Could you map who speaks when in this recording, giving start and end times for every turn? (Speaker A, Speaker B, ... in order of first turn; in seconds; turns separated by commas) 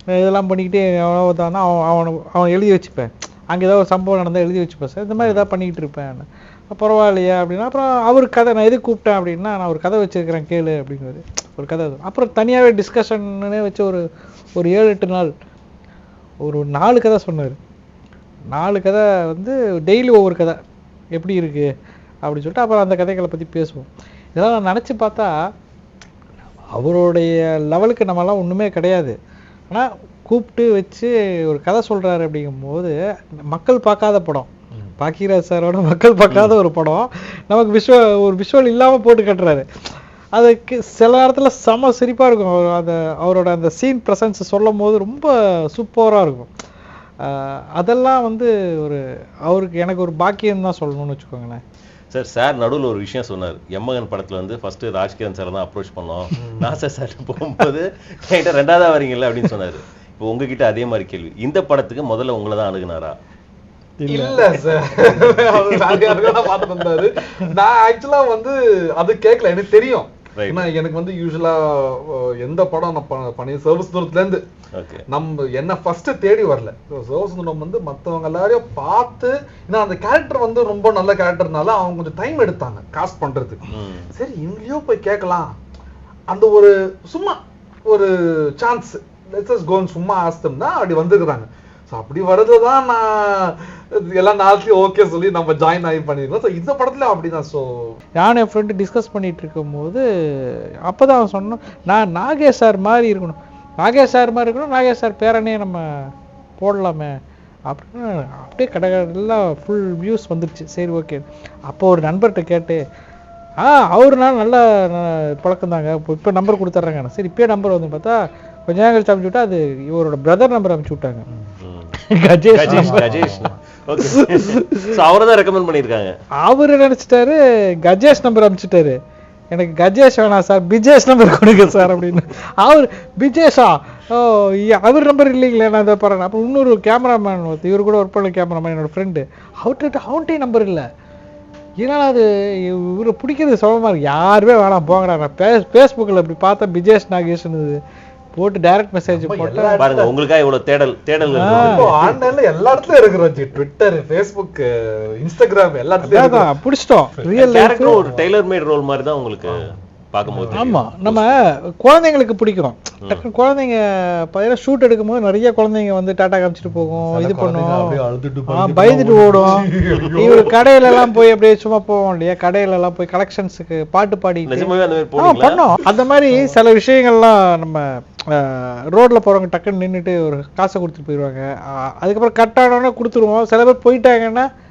Speaker A: 0.2-14.0, Speaker B: 5.2-5.5, Speaker A: 14.6-15.3, Speaker A: 16.4-17.6, Speaker A: 18.5-20.6, Speaker A: 21.2-21.7, Speaker A: 22.2-25.3, Speaker A: 26.8-29.1, Speaker A: 29.7-33.0, Speaker A: 33.5-39.6, Speaker B: 36.3-36.6, Speaker A: 40.4-46.5, Speaker A: 47.2-51.6, Speaker B: 52.1-63.2, Speaker C: 56.4-56.7, Speaker A: 64.0-64.6, Speaker C: 64.1-74.4, Speaker B: 64.8-66.7, Speaker B: 70.4-70.7, Speaker B: 74.8-75.0, Speaker C: 75.1-83.6, Speaker B: 83.7-84.1, Speaker C: 84.1-85.5, Speaker C: 86.3-98.0, Speaker A: 98.2-106.1, Speaker A: 106.6-107.1, Speaker A: 107.7-112.8, Speaker A: 113.6-121.3, Speaker B: 121.6-121.9, Speaker A: 122.1-123.5, Speaker B: 122.5-126.1, Speaker C: 122.6-123.6, Speaker A: 124.2-124.9, Speaker A: 126.4-129.0, Speaker A: 129.5-140.8, Speaker A: 141.8-147.8, Speaker A: 148.4-149.8, Speaker C: 149.1-150.1, Speaker B: 149.8-152.0, Speaker C: 151.2-156.5, Speaker A: 151.4-152.2, Speaker A: 156.0-157.9, Speaker C: 157.1-158.3, Speaker B: 157.3-161.4, Speaker C: 159.5-160.8, Speaker A: 160.5-184.5, Speaker C: 166.7-170.6, Speaker B: 169.6-170.5, Speaker B: 174.5-175.7, Speaker C: 176.3-176.6